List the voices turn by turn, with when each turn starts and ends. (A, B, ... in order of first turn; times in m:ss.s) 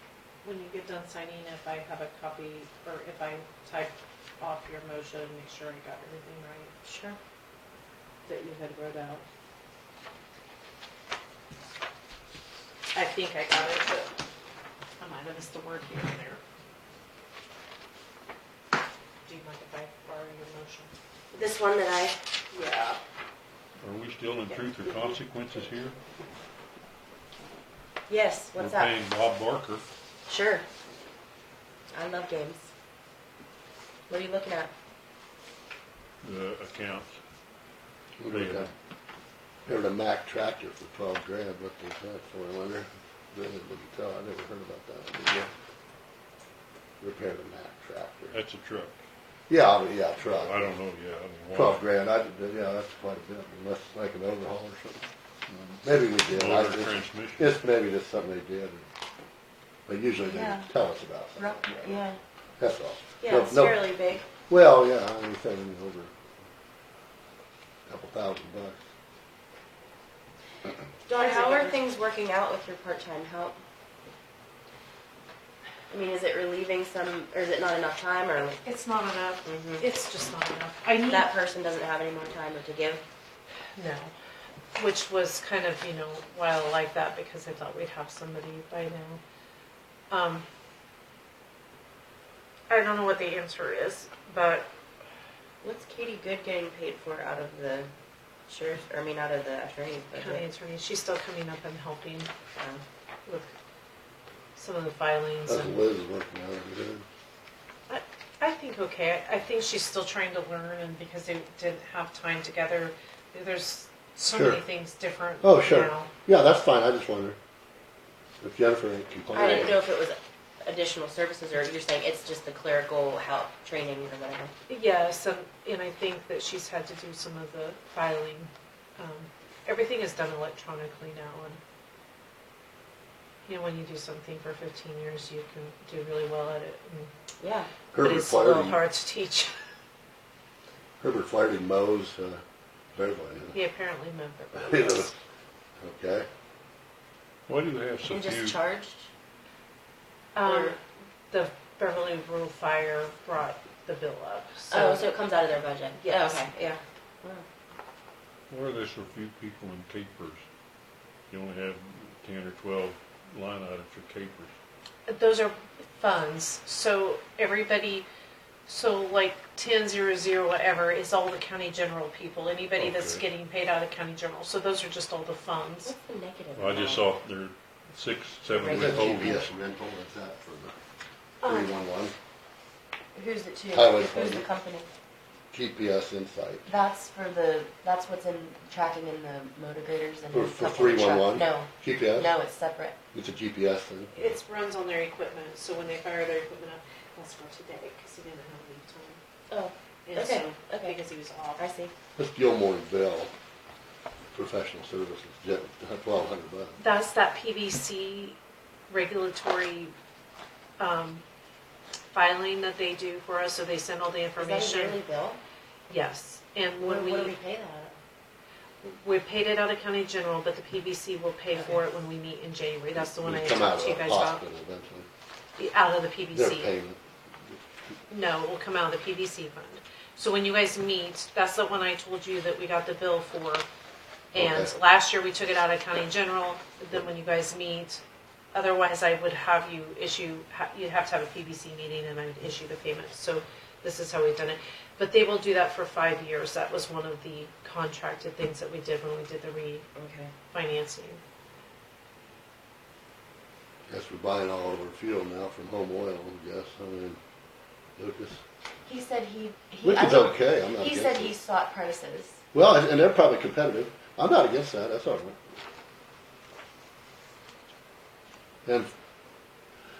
0:00.4-0:06.7 A
0:06.8-0:07.2 B
0:08.2-0:09.2 A
0:12.9-0:14.1 A
0:15.0-0:16.4 A
0:19.2-0:20.9 A
0:21.3-0:22.2 B
0:22.5-0:23.0 A
0:23.8-0:26.0 C
0:28.1-0:28.9 B
0:28.6-0:29.8 C
0:30.3-0:30.6 B
0:31.9-0:32.7 B
0:34.1-0:34.7 B
0:36.2-0:37.2 C
0:38.2-0:38.7 D
0:38.3-0:38.7 C
0:39.6-0:45.5 D
0:47.0-0:48.4 D
0:48.3-0:49.0 C
0:49.5-0:50.6 D
0:50.2-0:51.8 C
0:51.5-0:55.0 D
0:55.5-0:57.5 C
0:55.8-0:58.9 D
0:59.9-1:02.0 D
1:00.2-1:00.7 B
1:01.4-1:02.2 B
1:02.6-1:03.8 D
1:03.2-1:04.3 B
1:04.4-1:06.1 D
1:07.9-1:08.8 D
1:11.1-1:13.6 B
1:11.1-1:11.8 A
1:15.9-1:18.6 B
1:18.6-1:21.3 A
1:19.4-1:19.8 B
1:21.0-1:23.0 B
1:23.8-1:24.1 A
1:24.7-1:29.2 A
1:30.1-1:30.4 A
1:32.7-1:34.7 A
1:35.6-1:37.9 B
1:38.5-1:40.4 B
1:40.1-1:42.3 A
1:42.6-1:42.8 B
1:43.2-1:43.5 A
1:44.6-1:45.9 A
1:45.4-1:47.0 D
1:47.9-1:56.1 A
1:54.3-1:54.6 D
1:55.4-1:57.4 D
1:58.4-1:59.8 D
1:59.3-2:04.5 B
1:59.4-1:59.7 A
2:04.7-2:11.6 A
2:13.4-2:17.1 A
2:17.4-2:17.7 B
2:17.9-2:18.8 D
2:18.0-2:19.5 A
2:21.0-2:22.4 D
2:22.9-2:23.6 D
2:23.5-2:25.1 A
2:24.5-2:25.1 D
2:25.8-2:26.3 D
2:27.5-2:28.6 C
2:28.0-2:29.1 B
2:30.3-2:30.8 A
2:30.4-2:30.8 B
2:31.3-2:35.1 A
2:34.7-2:37.4 B
2:36.0-2:36.4 A
2:38.5-2:40.4 C
2:41.3-2:44.5 C
2:45.1-2:48.0 A
2:48.7-2:55.9 A
2:52.8-2:53.2 C
2:55.8-2:57.1 B
2:56.5-2:59.4 C
2:58.5-2:59.4 B
2:58.7-3:00.8 D
3:01.4-3:01.8 A
3:01.4-3:02.1 D
3:03.1-3:04.9 B
3:03.7-3:04.4 D
3:05.5-3:06.6 D
3:06.6-3:13.0 B
3:10.3-3:12.3 D
3:13.1-3:14.3 D
3:14.1-3:19.2 A
3:19.5-3:21.0 B
3:20.0-3:21.6 A
3:21.6-3:21.9 B
3:22.2-3:23.3 D
3:24.3-3:26.8 D
3:26.8-3:28.4 A
3:28.9-3:29.9 A
3:30.8-3:31.2 A
3:32.1-3:35.0 A
3:34.4-3:35.4 B
3:35.9-3:37.3 A
3:36.8-3:38.0 B
3:38.8-3:44.4 A
3:41.5-3:41.8 B
3:43.0-3:45.1 D
3:45.6-3:46.7 A
3:46.3-3:47.0 D
3:48.1-3:53.6 A
3:54.3-3:54.7 D
3:54.3-3:58.0 A
3:58.5-4:09.8 A
4:10.0-4:10.3 B
4:10.5-4:11.2 A
4:13.9-4:17.2 D
4:18.0-4:18.4 D
4:18.8-4:22.4 B
4:19.8-4:21.4 D
4:22.5-4:25.4 D
4:28.6-4:28.9 D